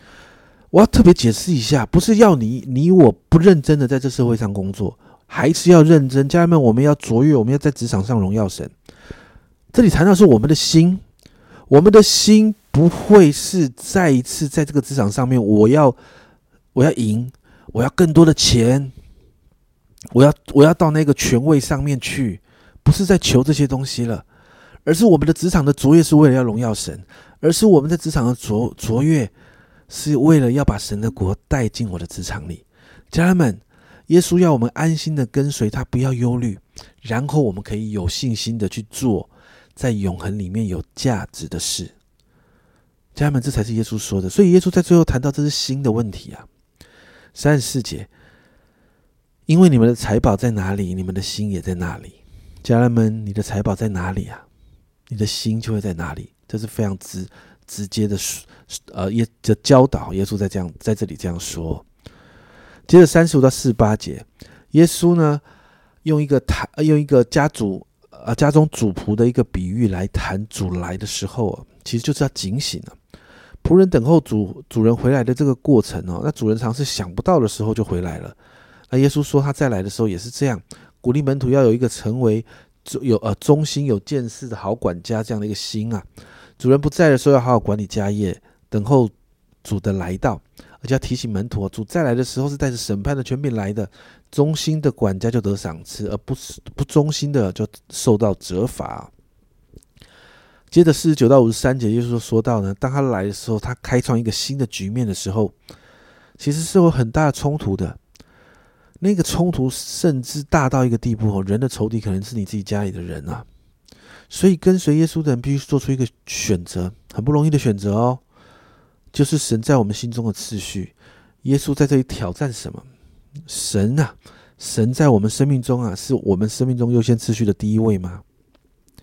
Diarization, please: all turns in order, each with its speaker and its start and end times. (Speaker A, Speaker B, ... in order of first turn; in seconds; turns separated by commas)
Speaker A: 0.7-8.7, Speaker A: 9.7-11.0, Speaker A: 11.7-16.0, Speaker A: 16.7-18.9, Speaker A: 20.1-24.2, Speaker A: 24.8-29.3, Speaker A: 29.9-41.9, Speaker A: 43.1-46.5, Speaker A: 47.3-48.1, Speaker A: 49.5-54.4, Speaker A: 55.1-61.8, Speaker A: 62.9-65.4, Speaker A: 66.0-73.0, Speaker A: 73.6-78.3, Speaker A: 78.9-86.1, Speaker A: 86.6-89.1, Speaker A: 89.6-99.1, Speaker A: 100.7-105.5, Speaker A: 106.4-108.0, Speaker A: 109.0-113.5, Speaker A: 114.3-118.2, Speaker A: 119.1-122.9, Speaker A: 123.5-128.2